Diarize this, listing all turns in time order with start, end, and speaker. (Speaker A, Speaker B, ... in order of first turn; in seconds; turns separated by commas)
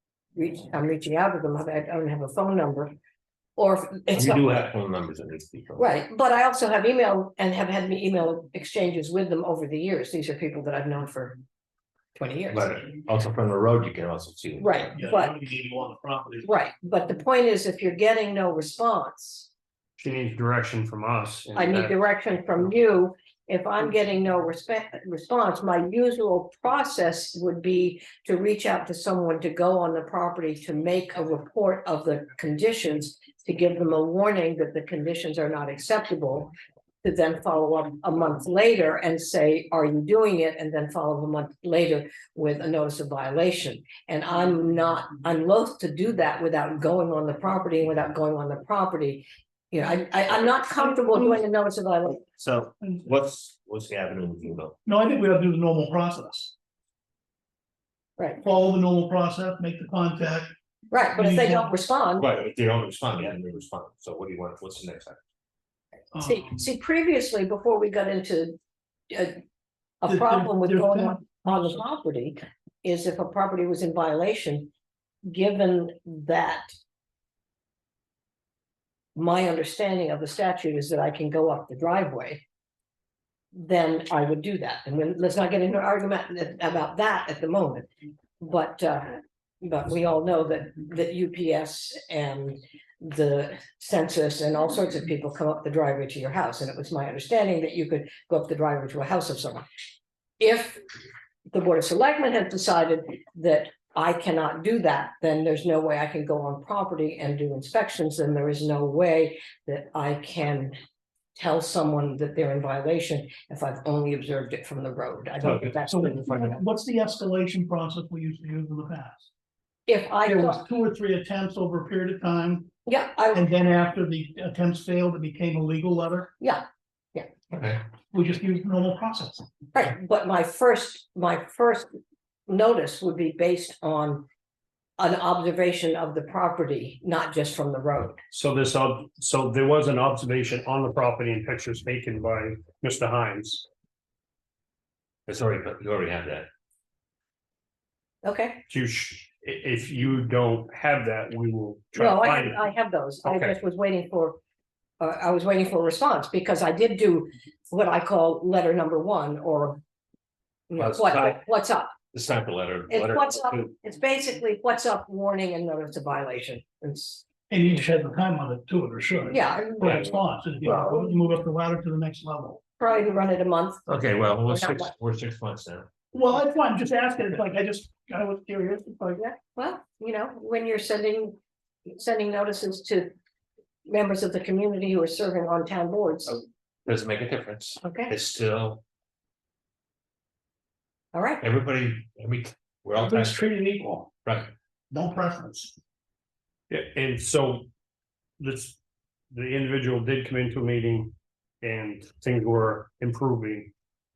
Speaker A: 0.4-3.0, Speaker A: 3.6-4.5, Speaker B: 4.1-5.9, Speaker A: 5.8-11.4, Speaker A: 12.2-12.7, Speaker B: 12.5-14.9, Speaker A: 14.6-15.4, Speaker C: 14.9-16.5, Speaker A: 16.4-19.5, Speaker D: 20.0-22.0, Speaker A: 21.6-36.5, Speaker A: 37.0-52.3, Speaker C: 50.8-51.4, Speaker B: 52.4-54.8, Speaker C: 54.9-56.5, Speaker C: 58.4-60.5, Speaker A: 60.9-62.3, Speaker C: 61.1-61.7, Speaker B: 62.2-65.2, Speaker C: 66.1-66.7, Speaker A: 66.2-68.6, Speaker A: 69.1-69.4, Speaker A: 70.0-74.7, Speaker C: 70.1-71.8, Speaker A: 75.2-76.7, Speaker A: 79.2-82.4, Speaker A: 83.5-87.9, Speaker A: 88.4-99.7, Speaker A: 100.4-100.8, Speaker A: 101.5-110.8, Speaker A: 111.3-116.6, Speaker B: 115.5-115.7, Speaker C: 115.9-119.3, Speaker A: 119.9-120.6, Speaker C: 120.2-122.7, Speaker A: 122.9-123.4, Speaker C: 123.3-126.3, Speaker A: 126.4-127.3, Speaker B: 127.5-127.8, Speaker C: 128.1-129.5, Speaker A: 129.7-131.9, Speaker A: 132.5-134.3, Speaker A: 135.0-138.2, Speaker D: 138.3-143.7, Speaker B: 145.3-146.5, Speaker A: 148.2-148.6, Speaker D: 148.7-152.7, Speaker A: 152.0-154.4, Speaker D: 153.2-153.6, Speaker A: 155.0-159.8, Speaker A: 160.7-161.9, Speaker B: 160.8-161.4, Speaker B: 162.1-163.7, Speaker A: 162.9-167.2, Speaker C: 167.5-172.6, Speaker A: 169.3-170.1, Speaker B: 170.6-170.9, Speaker A: 172.8-173.9, Speaker B: 173.9-175.9, Speaker A: 174.4-174.9, Speaker C: 176.1-179.2, Speaker A: 179.2-181.4, Speaker A: 181.9-183.1, Speaker A: 183.9-186.4, Speaker B: 186.9-188.8, Speaker A: 187.8-188.1, Speaker A: 191.1-191.4, Speaker B: 191.4-193.4, Speaker C: 193.0-194.1, Speaker B: 194.2-194.5, Speaker C: 194.9-195.8, Speaker D: 196.7-197.7, Speaker D: 198.4-198.8, Speaker D: 199.3-203.7